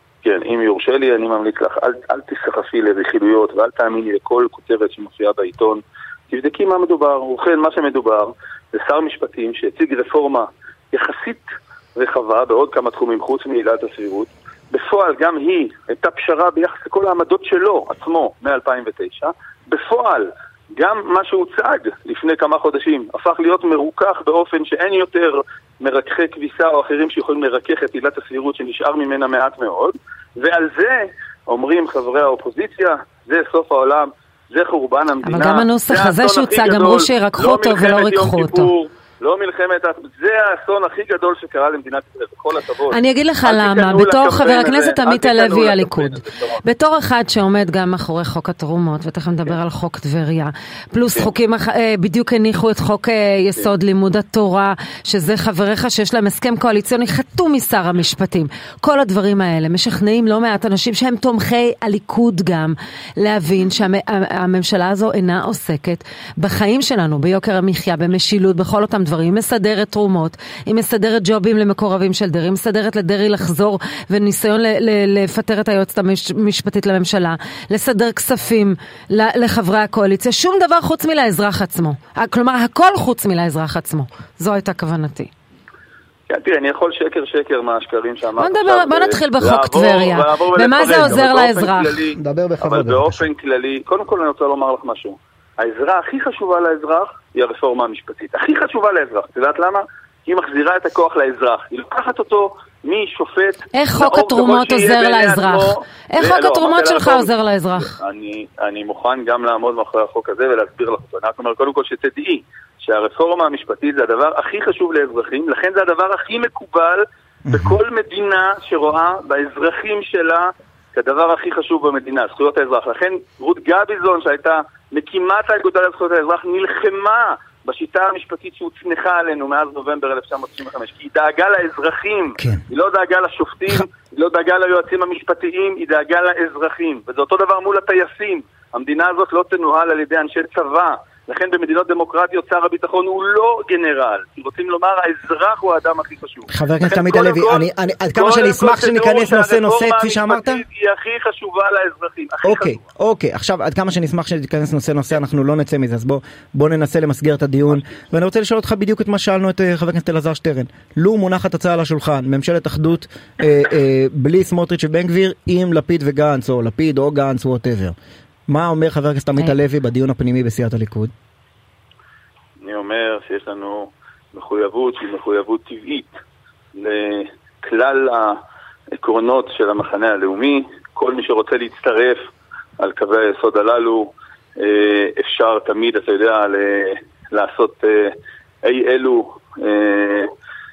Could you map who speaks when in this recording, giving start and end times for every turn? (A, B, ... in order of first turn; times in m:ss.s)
0:00.2-0:46.6 A
0:35.2-0:38.7 B
0:42.9-1:25.3 B
1:26.3-1:47.3 A
1:28.4-1:32.0 B
1:32.2-1:33.3 C
1:43.7-1:47.9 B
1:47.8-2:32.8 A
1:57.5-1:57.8 C
2:12.4-2:12.6 C
2:26.5-2:30.6 C
2:32.4-2:48.0 C
2:48.5-2:51.1 C
2:52.6-2:56.2 A
2:56.8-2:58.4 A
2:59.0-3:02.2 A
3:02.8-3:10.3 A